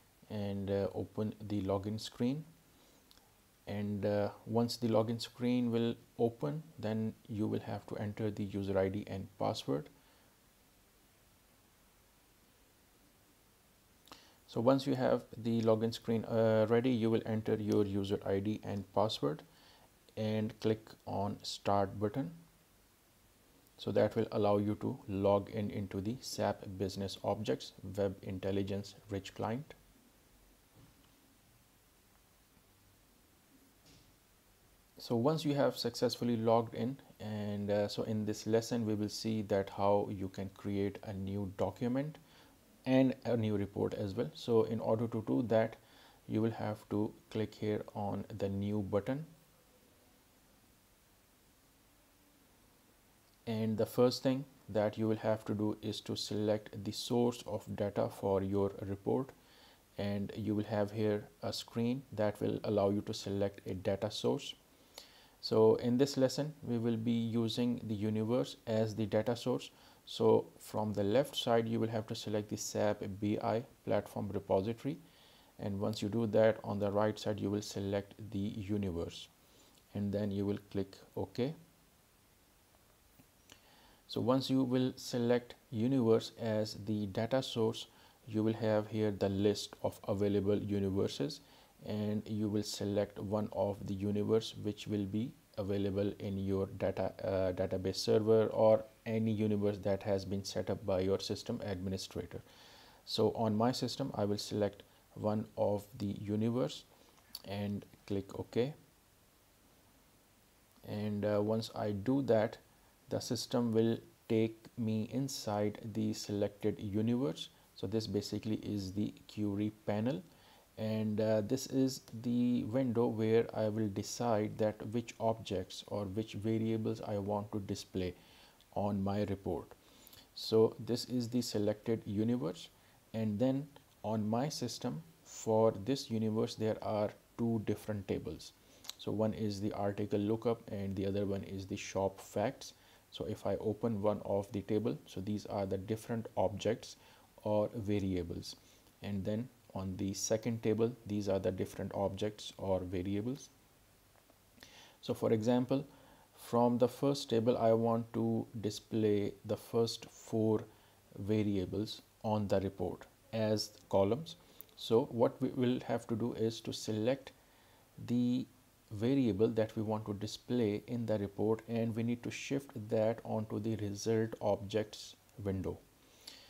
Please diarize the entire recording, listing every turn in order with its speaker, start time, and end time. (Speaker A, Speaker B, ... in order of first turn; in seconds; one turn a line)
Speaker A: 0.3-2.5
Speaker A: 3.6-9.9
Speaker A: 14.5-19.4
Speaker A: 20.2-22.4
Speaker A: 23.8-29.8
Speaker A: 35.0-42.2
Speaker A: 42.8-49.3
Speaker A: 53.5-59.3
Speaker A: 60.0-64.6
Speaker A: 65.4-75.0
Speaker A: 75.6-79.3
Speaker A: 79.9-81.5
Speaker A: 84.1-102.4
Speaker A: 103.0-106.9
Speaker A: 107.5-108.8
Speaker A: 110.8-120.2
Speaker A: 120.8-128.2
Speaker A: 128.7-129.8
Speaker A: 130.3-153.5
Speaker A: 155.0-167.3
Speaker A: 168.0-175.8